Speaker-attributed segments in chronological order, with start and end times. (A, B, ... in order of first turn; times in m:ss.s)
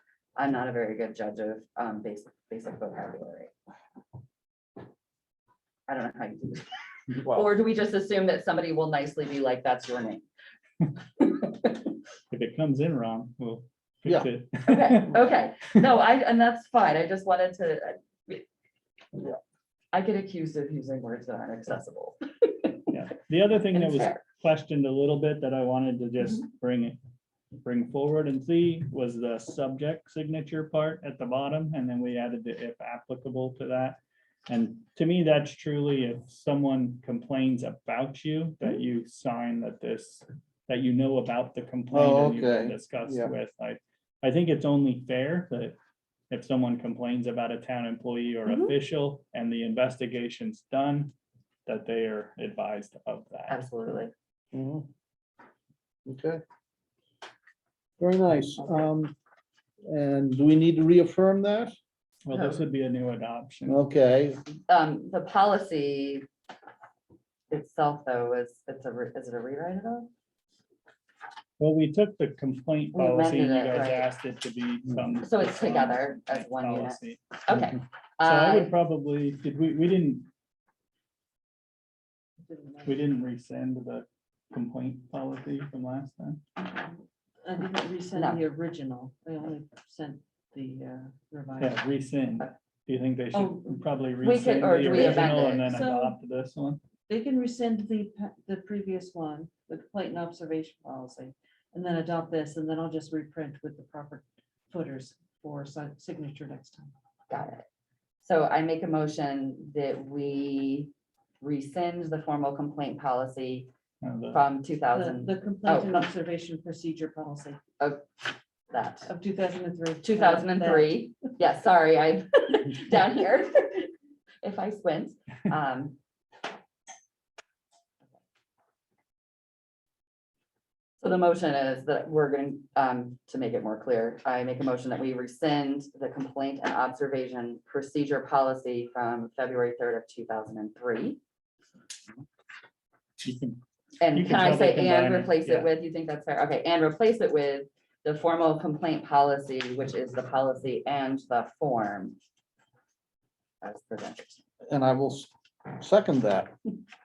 0:00.4-0:03.5 A
0:05.9-0:10.2 A
0:11.2-0:11.5 A
0:12.3-0:15.2 B
0:14.7-0:18.4 A
0:19.9-0:22.7 A
0:22.9-0:27.0 B
0:23.7-0:24.2 A
0:27.6-0:45.8 B
0:41.9-0:43.3 C
0:46.3-0:51.1 B
0:48.5-0:48.7 A
0:51.6-0:53.6 B
0:53.5-0:54.1 A
0:54.5-0:54.8 C
0:56.0-0:56.4 C
0:58.0-0:59.1 C
0:59.8-1:01.8 C
1:02.2-1:03.8 B
1:02.3-1:02.6 A
1:03.6-1:04.4 C
1:04.7-1:06.2 A
1:07.5-1:10.1 A
1:11.6-1:17.6 B
1:12.9-1:14.1 A
1:15.2-1:18.7 A
1:18.2-1:20.3 B
1:22.5-1:23.0 D
1:22.8-1:26.4 B
1:27.4-1:31.8 D
1:28.1-1:28.4 A
1:31.6-1:36.8 B
1:33.3-1:33.8 D
1:34.2-1:35.7 A
1:34.8-1:36.2 D
1:37.1-1:46.9 D
1:47.3-1:47.6 A
1:48.2-1:53.7 A
1:54.0-1:54.4 B
1:54.3-1:56.1 A
1:54.9-1:57.6 D
1:58.7-1:59.1 A
1:59.1-2:00.9 D
2:00.0-2:03.9 A
2:04.4-2:06.0 A
2:11.0-2:21.2 A
2:23.2-2:23.6 B
2:24.0-2:32.2 A
2:24.1-2:25.7 B
2:33.6-2:34.4 A
2:34.7-2:36.5 C